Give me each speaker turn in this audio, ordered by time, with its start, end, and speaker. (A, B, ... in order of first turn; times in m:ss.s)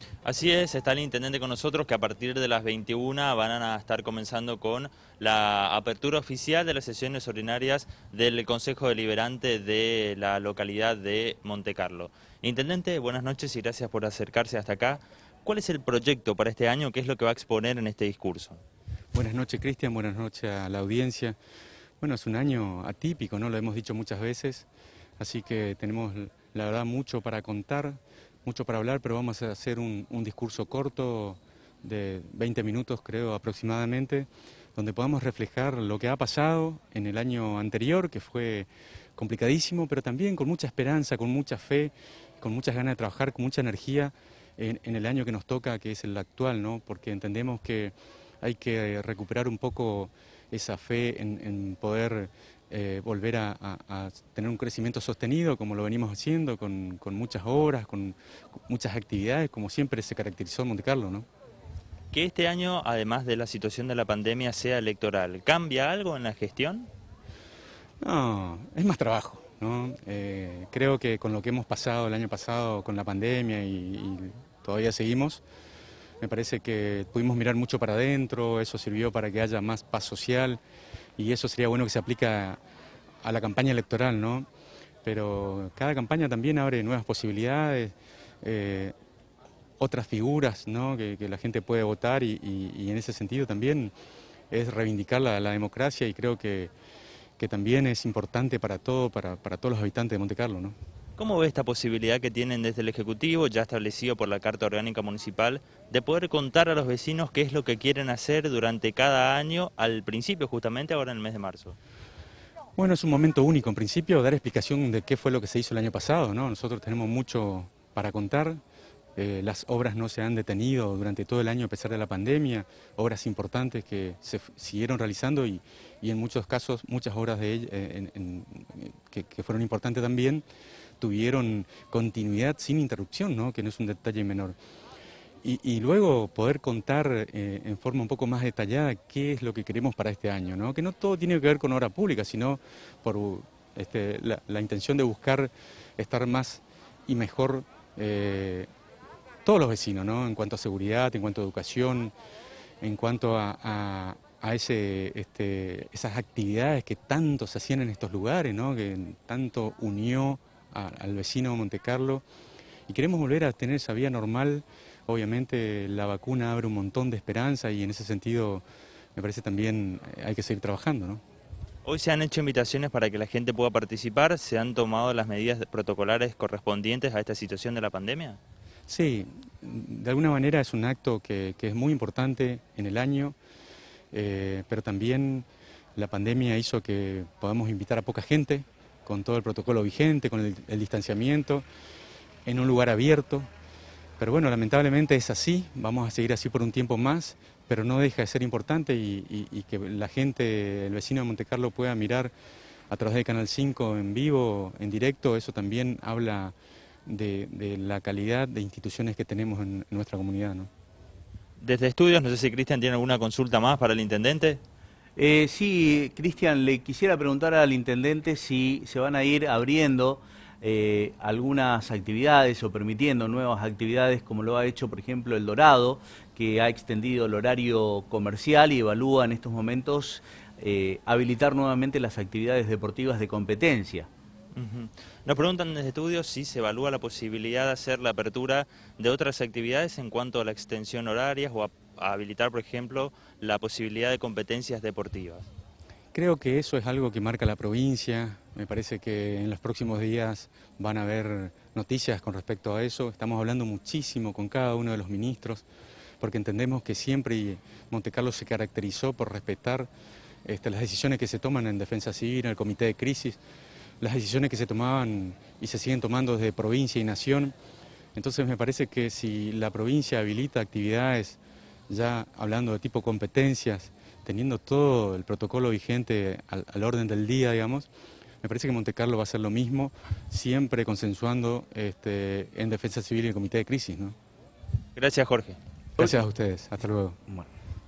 0:00.2-0:18.6 A
0:19.1-0:21.4 B
0:22.0-0:24.7 B
0:25.2-0:58.2 B
0:58.7-1:01.3 B
1:02.1-1:06.9 A
1:08.0-1:15.4 B
1:16.2-1:20.6 B
1:21.2-1:22.6 B
1:23.2-1:24.5 B
1:25.0-1:28.9 B
1:29.8-1:33.9 B
1:34.5-1:36.7 B
1:37.4-1:40.8 B
1:41.2-1:51.8 A
1:52.8-1:58.6 B
1:59.2-2:10.4 B
2:11.0-2:14.6 B
2:15.4-2:28.7 B
2:29.4-2:32.1 B
2:32.8-2:42.2 B
2:42.9-2:48.6 B
2:49.2-2:51.2 B
2:51.8-2:58.4 A
2:58.9-3:03.4 B
3:04.1-3:11.6 B
3:12.4-3:13.5 B
3:14.2-3:22.3 B
3:22.9-3:26.5 B
3:27.1-3:30.7 B
3:31.6-3:34.6 A
3:35.2-3:54.1 C
3:54.6-4:05.5 A
4:06.1-4:15.6 B
4:16.2-4:19.9 B
4:20.4-4:23.4 B
4:24.0-4:27.5 B
4:28.2-4:37.9 B
4:38.4-4:44.2 B
4:45.0-4:45.6 A
4:46.0-4:47.2 B